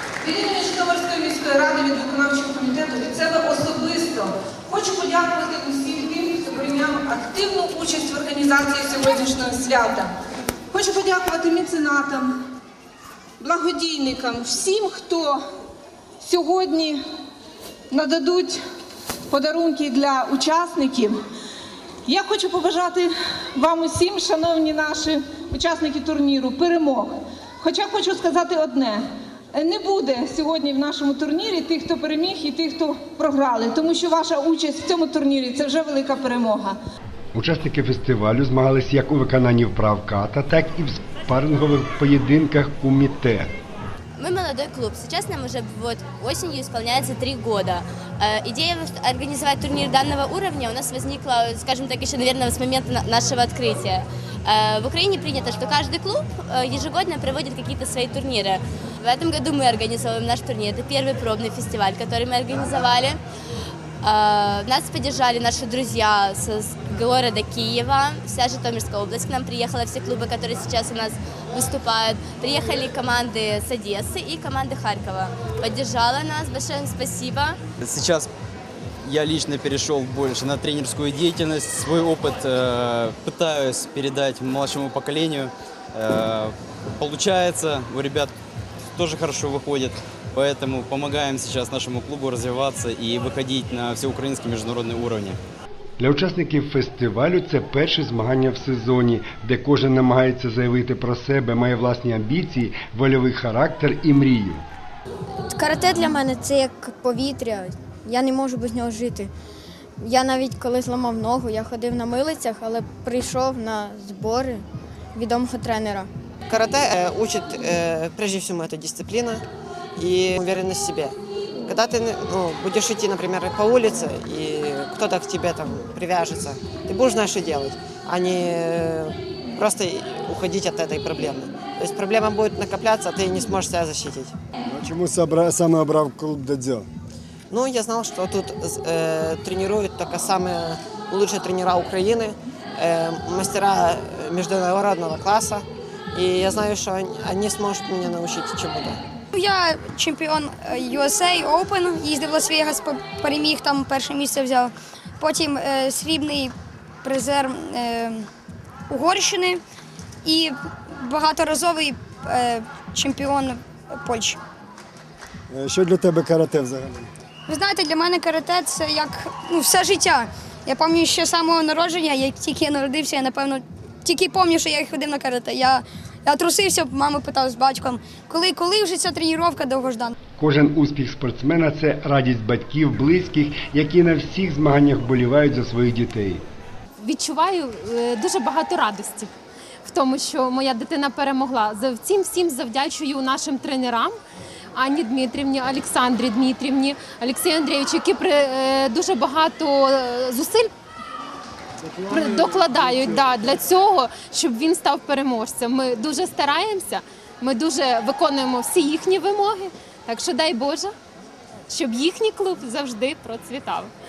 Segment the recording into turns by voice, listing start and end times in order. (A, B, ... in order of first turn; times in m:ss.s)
0:00.2-0:10.1 A
0:10.7-0:12.3 A
0:13.4-0:15.4 A
0:16.2-0:17.0 A
0:17.9-0:18.6 A
0:19.3-0:21.2 A
0:22.0-0:36.8 A
0:37.3-0:43.5 B
0:44.2-1:03.2 C
1:04.0-1:17.6 C
1:17.8-1:18.3 D
1:19.0-1:26.5 D
1:27.0-1:28.2 D
1:29.0-1:35.2 D
1:36.0-1:44.6 B
1:45.5-1:49.3 E
1:50.0-1:54.6 E
1:55.1-1:56.1 E
1:56.5-1:59.4 F
2:00.0-2:01.2 F
2:01.7-2:14.3 F
2:14.7-2:16.9 G
2:17.5-2:29.0 F
2:29.4-2:36.5 H
2:37.0-2:38.2 H
2:38.9-2:39.6 H
2:40.2-2:44.4 H
2:45.5-2:47.1 G
2:47.5-3:00.1 H
3:00.4-3:06.4 B
3:07.0-3:09.3 I
3:09.8-3:14.2 I
3:14.8-3:20.7 I
3:21.9-3:23.5 G
3:22.1-3:30.9 I
3:22.4-3:23.3 C
3:31.7-3:33.9 I